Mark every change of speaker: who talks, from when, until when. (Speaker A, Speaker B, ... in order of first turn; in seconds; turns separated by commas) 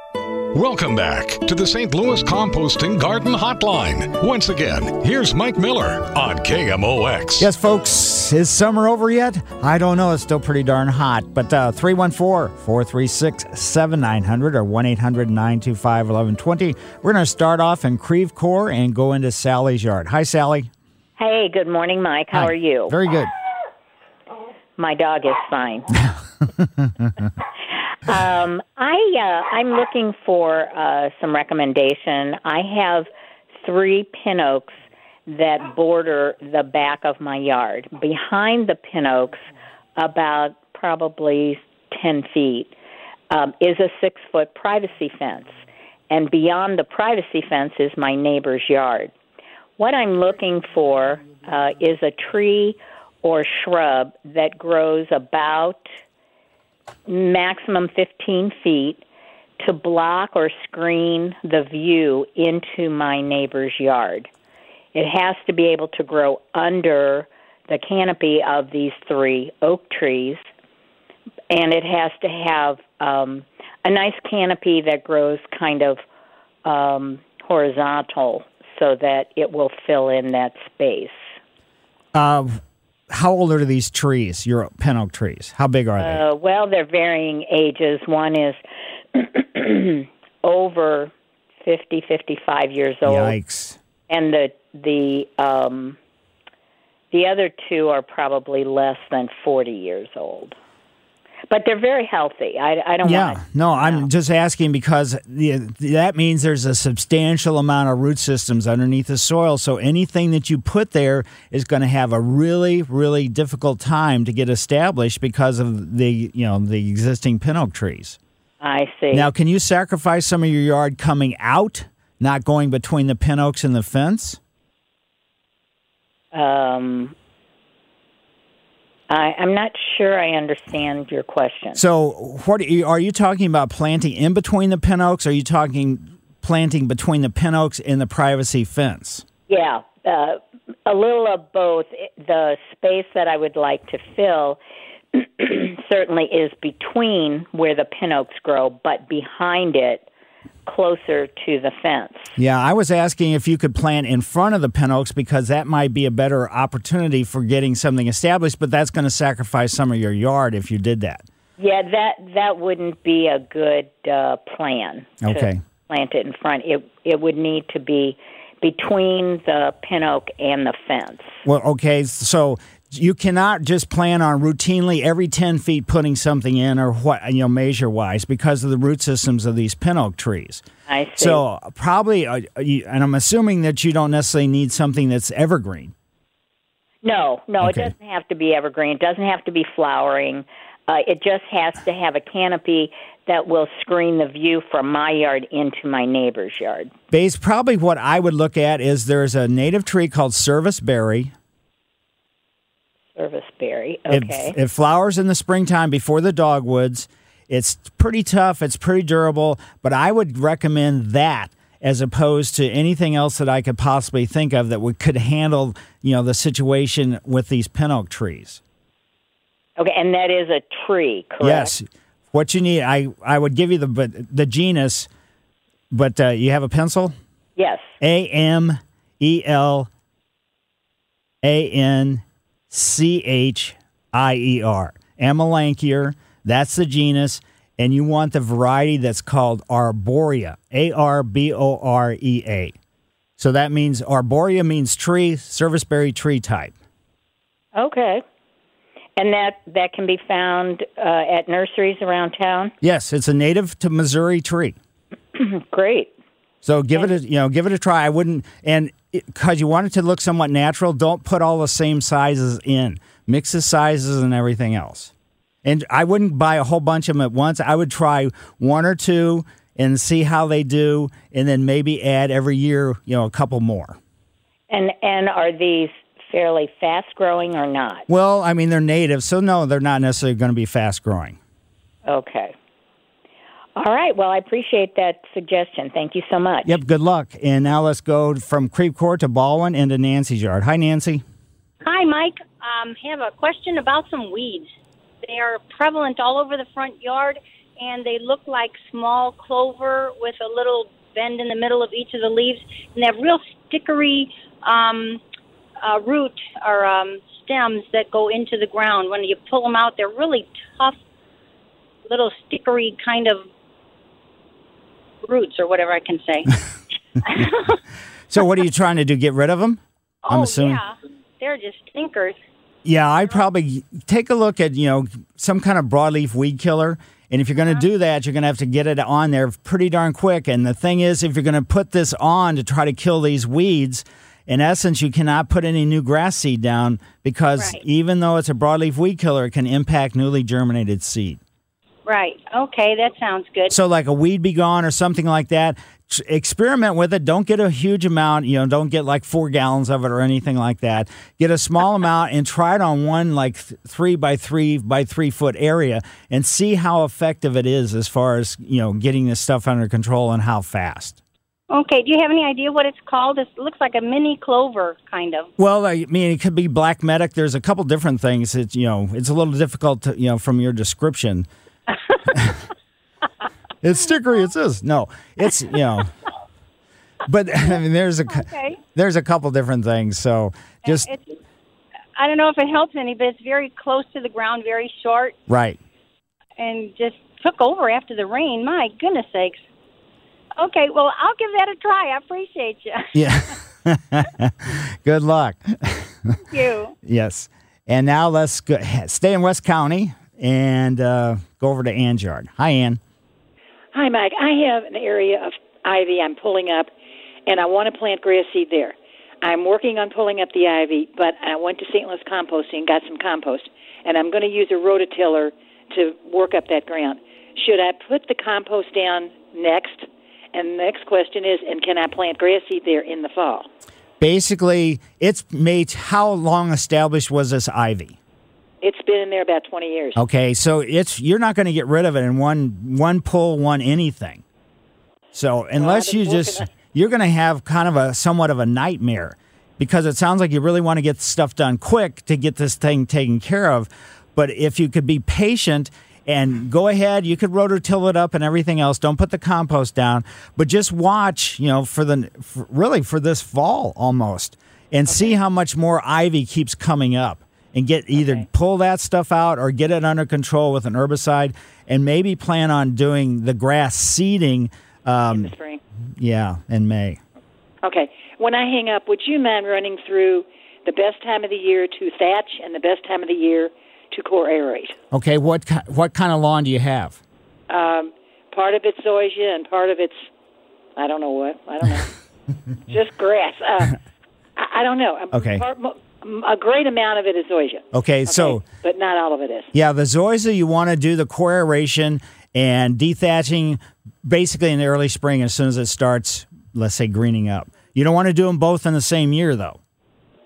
Speaker A: 0.5-7.5, Speaker B: 7.4-20.7, Speaker C: 21.2-22.9, Speaker B: 22.3-23.3, Speaker C: 24.8-25.9, Speaker B: 26.6-27.1, Speaker C: 28.0-33.1, Speaker C: 33.6-42.7, Speaker C: 43.3-49.1, Speaker C: 49.8-55.8, Speaker C: 57.1-59.0, Speaker C: 59.6-64.3, Speaker C: 64.9-70.5, Speaker C: 71.5-76.0, Speaker C: 76.6-81.3, Speaker B: 82.1-82.6, Speaker B: 83.1-86.2, Speaker C: 86.0-88.6, Speaker C: 89.1-91.1, Speaker C: 91.6-93.3, Speaker B: 93.0-93.8, Speaker C: 94.1-96.0, Speaker C: 97.1-100.5, Speaker C: 101.5-104.0, Speaker B: 103.0-118.2, Speaker C: 118.6-119.3, Speaker B: 119.1-124.4, Speaker C: 126.3-127.1, Speaker C: 129.1-131.8, Speaker B: 131.7-139.2, Speaker C: 139.5-144.6, Speaker C: 145.1-150.1, Speaker C: 150.7-152.3, Speaker B: 152.4-161.2, Speaker C: 161.6-171.4, Speaker B: 165.2-165.6, Speaker B: 171.4-180.6, Speaker C: 180.9-181.4, Speaker B: 181.2-185.9, Speaker C: 187.0-196.9, Speaker B: 187.6-187.9, Speaker B: 197.1-201.3, Speaker C: 203.2-204.6, Speaker B: 204.1-218.6, Speaker C: 219.8-221.7, Speaker B: 221.4-225.1, Speaker B: 225.9-227.1, Speaker C: 227.6-227.9, Speaker B: 228.0-229.9, Speaker B: 231.4-242.7, Speaker B: 243.4-246.7, Speaker C: 247.8-248.2, Speaker C: 249.2-252.7, Speaker B: 252.8-254.8, Speaker C: 255.3-256.1, Speaker B: 256.6-265.1, Speaker B: 265.6-274.0, Speaker C: 274.7-278.1, Speaker B: 278.1-281.4, Speaker C: 282.1-282.5, Speaker C: 283.8-286.8, Speaker B: 286.6-291.2, Speaker D: 291.8-294.7, Speaker D: 295.2-305.2, Speaker D: 305.8-311.0, Speaker D: 312.1-313.5, Speaker D: 315.2-316.6, Speaker D: 317.2-317.7, Speaker B: 318.3-320.8, Speaker D: 320.2-322.4, Speaker B: 322.8-341.4, Speaker D: 337.6-337.8, Speaker D: 342.1-343.7, Speaker B: 343.7-361.2, Speaker D: 361.7-365.5, Speaker B: 365.6-371.5, Speaker B: 372.3-372.6, Speaker B: 373.8-376.1, Speaker B: 377.2-381.1, Speaker D: 378.3-378.8, Speaker D: 380.8-381.3, Speaker D: 382.1-385.4, Speaker B: 385.5-385.8, Speaker D: 386.6-389.6, Speaker D: 390.6-393.5, Speaker B: 393.1-396.3, Speaker D: 396.5-396.9, Speaker B: 397.0-403.0, Speaker E: 403.9-406.9, Speaker E: 407.5-423.7, Speaker B: 424.2-428.2, Speaker E: 428.8-430.2, Speaker B: 430.1-434.4, Speaker B: 435.3-465.5, Speaker E: 435.8-436.7, Speaker E: 455.1-455.3, Speaker E: 458.1-458.4, Speaker E: 465.3-465.8, Speaker B: 466.2-467.2, Speaker E: 467.8-474.9, Speaker B: 475.1-477.2, Speaker E: 477.7-480.3, Speaker E: 481.0-482.1, Speaker E: 482.9-484.0, Speaker E: 484.6-489.7, Speaker B: 485.3-485.6, Speaker B: 487.9-488.6, Speaker B: 489.7-499.8